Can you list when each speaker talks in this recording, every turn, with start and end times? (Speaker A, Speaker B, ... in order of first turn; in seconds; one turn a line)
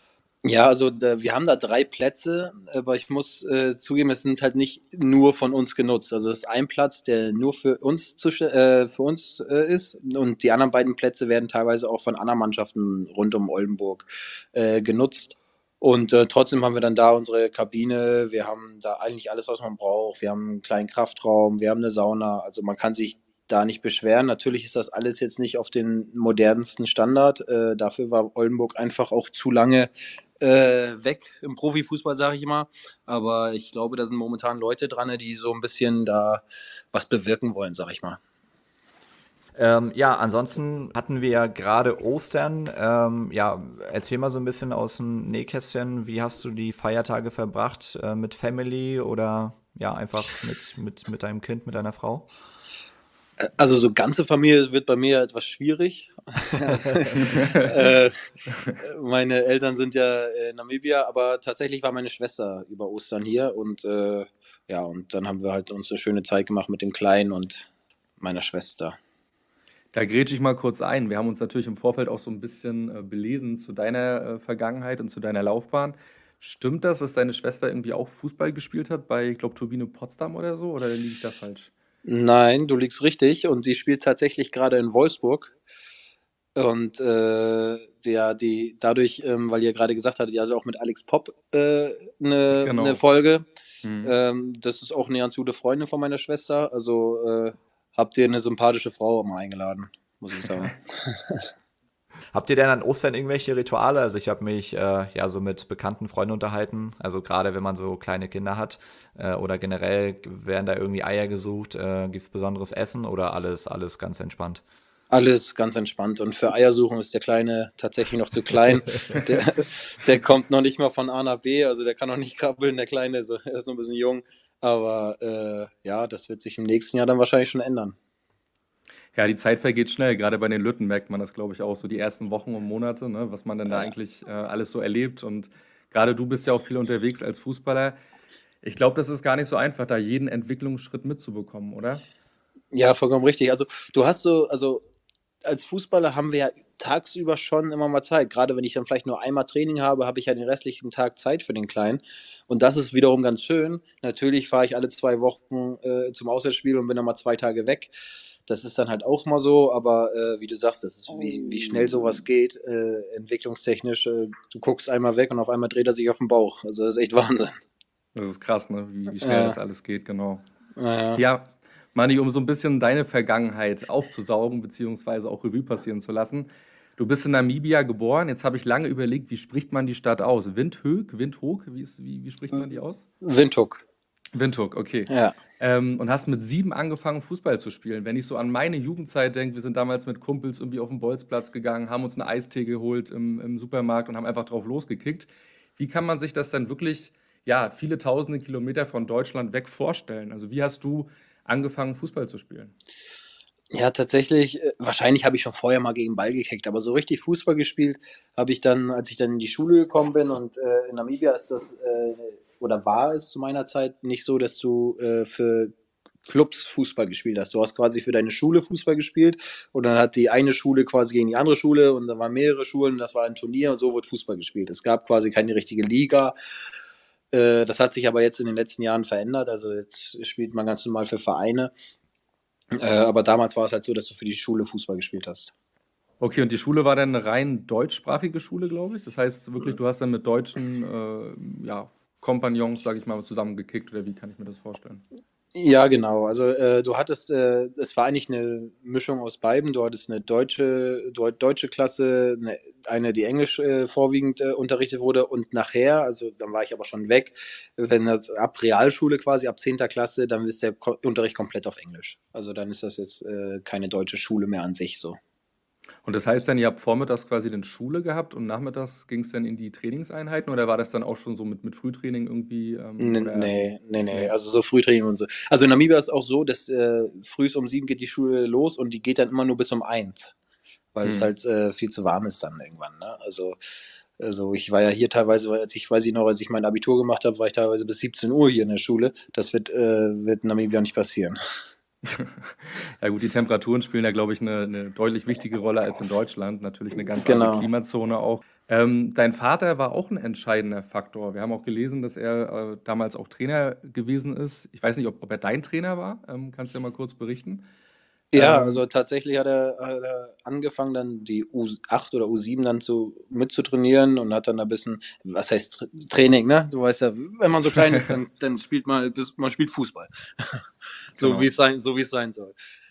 Speaker A: 0.4-38.2
Speaker B: 39.5-52.2
Speaker A: 53.5-58.2
Speaker C: 57.2-57.7
Speaker A: 58.8-69.0
Speaker C: 69.9-81.7
Speaker A: 82.0-85.5
Speaker A: 86.5-93.5
Speaker C: 92.5-93.0
Speaker C: 93.8-94.2
Speaker A: 94.0-101.5
Speaker B: 102.3-114.6
Speaker A: 115.1-128.0
Speaker C: 129.1-137.9
Speaker C: 138.6-142.0
Speaker A: 142.7-144.8
Speaker A: 145.4-157.9
Speaker A: 158.5-167.5
Speaker C: 168.1-170.4
Speaker A: 169.2-169.6
Speaker A: 170.8-171.2
Speaker C: 171.2-183.0
Speaker A: 183.2-183.8
Speaker C: 184.3-202.7
Speaker A: 185.1-185.4
Speaker A: 203.7-215.7
Speaker A: 216.2-226.3
Speaker A: 227.3-231.7
Speaker A: 232.7-235.5
Speaker C: 236.2-245.0
Speaker A: 245.5-265.2
Speaker C: 266.0-274.3
Speaker A: 273.0-280.3
Speaker A: 280.9-283.6
Speaker C: 281.0-281.3
Speaker A: 284.2-291.4
Speaker C: 292.0-307.6
Speaker A: 297.2-297.7
Speaker A: 308.3-322.5
Speaker C: 308.3-308.8
Speaker C: 321.2-321.5